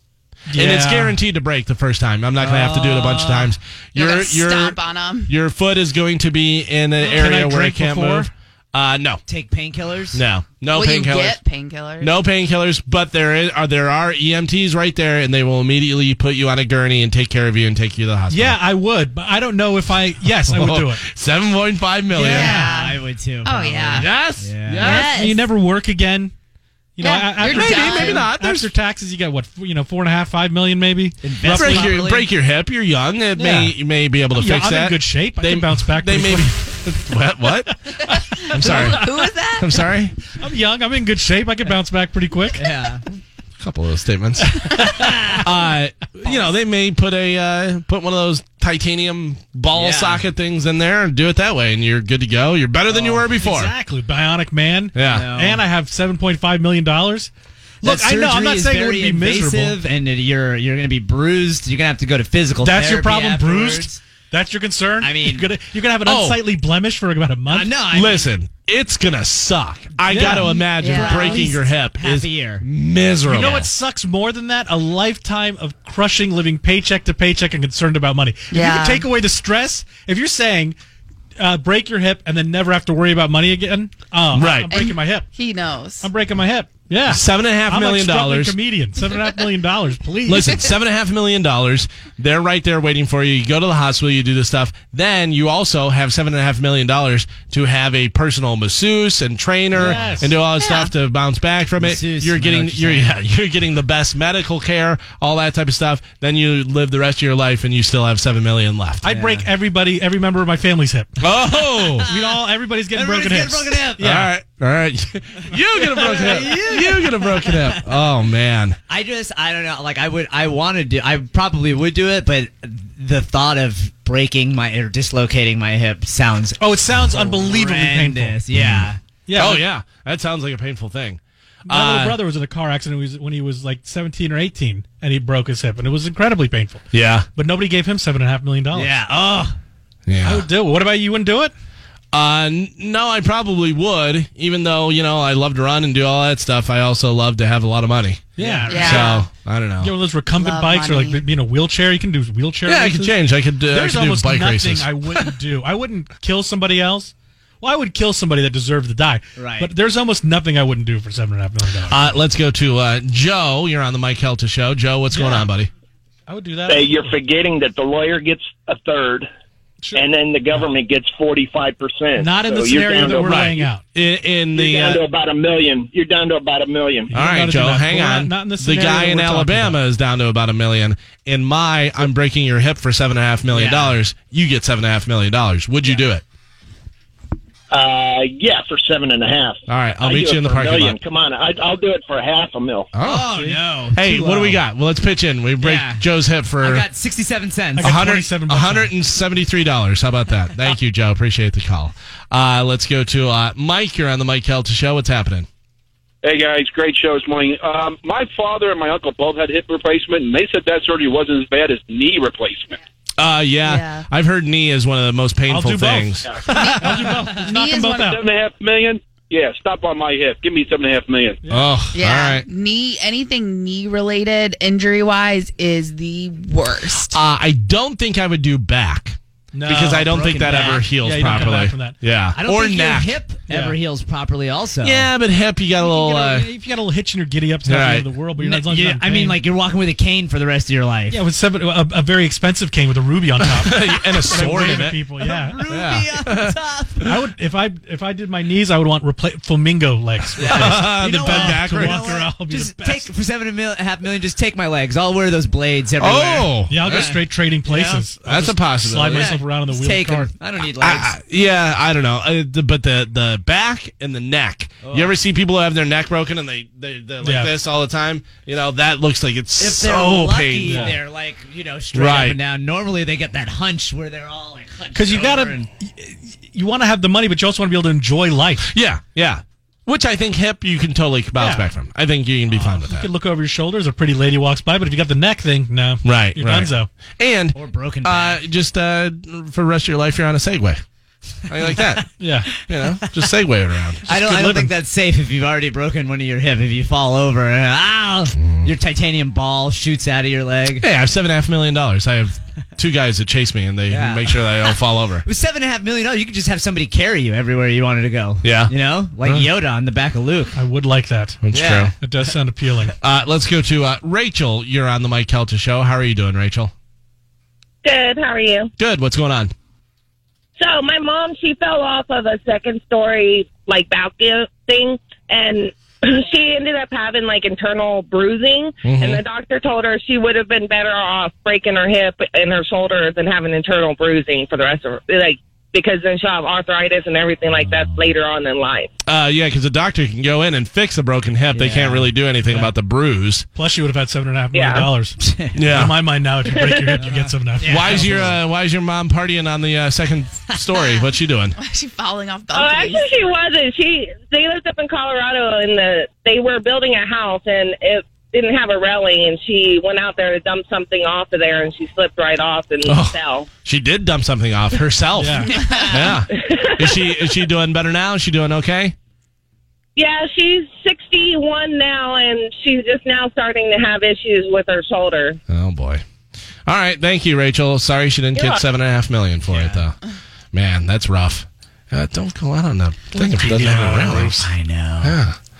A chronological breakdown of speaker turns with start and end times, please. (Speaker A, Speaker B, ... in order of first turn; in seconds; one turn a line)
Speaker A: 0.5-1.2
Speaker B: 0.5-9.2
Speaker C: 2.7-3.5
Speaker D: 4.0-5.3
Speaker A: 7.0-8.3
Speaker C: 9.3-10.2
Speaker B: 10.1-11.4
Speaker D: 10.7-12.1
Speaker B: 12.0-18.6
Speaker A: 18.3-21.0
Speaker B: 20.2-22.7
Speaker C: 22.1-24.8
Speaker D: 22.2-24.2
Speaker B: 23.9-25.1
Speaker D: 24.8-25.4
Speaker A: 24.8-26.3
Speaker A: 26.9-31.9
Speaker D: 27.0-28.3
Speaker B: 27.4-28.7
Speaker C: 31.2-32.3
Speaker B: 31.4-40.2
Speaker A: 34.3-36.6
Speaker D: 38.7-39.4
Speaker C: 38.7-39.5
Speaker A: 40.4-42.7
Speaker C: 42.6-43.0
Speaker B: 43.6-44.8
Speaker A: 44.5-44.9
Speaker C: 45.0-45.4
Speaker B: 45.4-53.7
Speaker C: 49.8-50.2
Speaker A: 53.3-57.3
Speaker B: 54.9-55.2
Speaker C: 55.1-55.6
Speaker A: 57.8-59.8
Speaker C: 57.8-64.0
Speaker A: 62.6-67.8
Speaker C: 65.0-65.5
Speaker B: 66.0-66.4
Speaker C: 67.5-68.3
Speaker B: 67.9-73.7
Speaker A: 70.1-70.5
Speaker D: 70.2-71.6
Speaker C: 70.9-72.6
Speaker A: 73.3-80.8
Speaker D: 78.5-79.0
Speaker A: 81.4-85.3
Speaker B: 84.3-84.9
Speaker D: 84.7-86.1
Speaker A: 86.0-90.6
Speaker B: 87.0-88.6
Speaker B: 90.2-109.0
Speaker A: 99.7-100.4
Speaker D: 100.6-100.9
Speaker C: 101.8-103.2
Speaker A: 109.0-111.2
Speaker C: 109.1-109.4
Speaker B: 111.2-112.1
Speaker C: 112.0-112.4
Speaker A: 112.0-114.3
Speaker C: 112.9-114.0
Speaker B: 114.0-118.8
Speaker C: 115.9-117.8
Speaker C: 118.9-129.0
Speaker A: 126.6-128.4
Speaker B: 128.5-132.2
Speaker A: 129.2-129.6
Speaker A: 131.7-139.0
Speaker B: 136.9-137.3
Speaker C: 138.7-139.6
Speaker B: 140.1-140.5
Speaker A: 140.2-141.5
Speaker B: 142.1-149.9
Speaker A: 148.3-149.1
Speaker C: 148.4-148.8
Speaker D: 148.7-149.2
Speaker A: 149.8-162.0
Speaker D: 150.3-151.2
Speaker B: 152.7-155.3
Speaker C: 159.4-159.7
Speaker B: 161.9-165.7
Speaker A: 165.1-165.5
Speaker A: 166.3-167.2
Speaker E: 166.7-169.3
Speaker E: 169.9-173.7
Speaker A: 172.2-173.8
Speaker B: 173.3-175.0
Speaker E: 174.5-177.1
Speaker A: 177.1-179.8
Speaker B: 177.1-186.2
Speaker C: 183.5-183.9
Speaker E: 187.7-192.9
Speaker B: 189.7-191.0
Speaker B: 192.9-193.3
Speaker C: 193.0-194.6
Speaker A: 193.3-193.6
Speaker B: 193.9-196.9
Speaker C: 195.6-196.0
Speaker C: 196.6-197.8
Speaker A: 197.8-198.9
Speaker B: 197.8-205.5
Speaker F: 206.2-212.8
Speaker B: 213.2-216.3
Speaker D: 213.6-214.1
Speaker A: 215.5-218.2
Speaker D: 216.5-218.1
Speaker F: 218.0-221.4
Speaker A: 221.4-221.8
Speaker B: 221.5-222.4
Speaker D: 221.9-227.2
Speaker B: 227.1-233.2
Speaker A: 229.5-232.0
Speaker C: 230.4-230.8
Speaker C: 232.4-235.1
Speaker A: 233.5-233.8
Speaker B: 234.8-236.5
Speaker A: 235.8-239.4
Speaker B: 237.6-238.1
Speaker C: 238.4-241.2
Speaker A: 241.1-245.6
Speaker B: 243.4-245.0
Speaker C: 245.4-247.0
Speaker B: 245.7-247.2
Speaker A: 247.0-253.1
Speaker C: 250.4-258.1
Speaker B: 250.4-252.2
Speaker B: 256.0-257.1
Speaker A: 256.6-260.3
Speaker B: 258.2-259.4
Speaker C: 259.1-261.1
Speaker B: 260.8-271.0
Speaker C: 264.8-265.1
Speaker A: 267.2-267.5
Speaker C: 269.6-275.7
Speaker A: 270.6-271.0
Speaker B: 271.9-272.4
Speaker A: 274.9-278.7
Speaker B: 278.6-283.1
Speaker A: 281.4-281.6
Speaker A: 282.5-286.9
Speaker B: 286.0-290.8
Speaker C: 287.6-288.4
Speaker B: 291.5-294.1
Speaker A: 292.2-292.5
Speaker C: 294.1-300.8
Speaker A: 294.1-294.7
Speaker B: 298.4-298.7
Speaker B: 300.8-305.2
Speaker C: 303.9-310.5
Speaker B: 308.4-309.5
Speaker A: 310.5-311.4
Speaker B: 311.4-311.9
Speaker C: 311.6-311.9
Speaker A: 312.0-312.9
Speaker B: 313.0-316.7
Speaker G: 317.8-318.7
Speaker B: 318.8-319.5
Speaker G: 320.6-338.9
Speaker B: 328.8-329.2
Speaker C: 337.5-337.8
Speaker B: 339.0-343.4
Speaker C: 341.5-342.1
Speaker A: 342.5-342.7
Speaker A: 343.5-348.4
Speaker G: 344.5-344.9
Speaker C: 345.2-345.5
Speaker B: 345.5-345.9
Speaker G: 346.5-347.0
Speaker C: 347.0-348.1
Speaker B: 347.6-351.6
Speaker D: 350.7-353.1
Speaker G: 352.5-363.5
Speaker B: 362.8-368.9
Speaker A: 365.1-365.5
Speaker D: 365.5-366.2
Speaker G: 365.9-367.1
Speaker G: 369.9-375.4
Speaker B: 375.5-376.0
Speaker B: 376.7-380.0
Speaker G: 378.3-378.6
Speaker B: 380.5-384.4
Speaker A: 383.2-384.5
Speaker C: 384.4-385.1
Speaker B: 385.0-385.4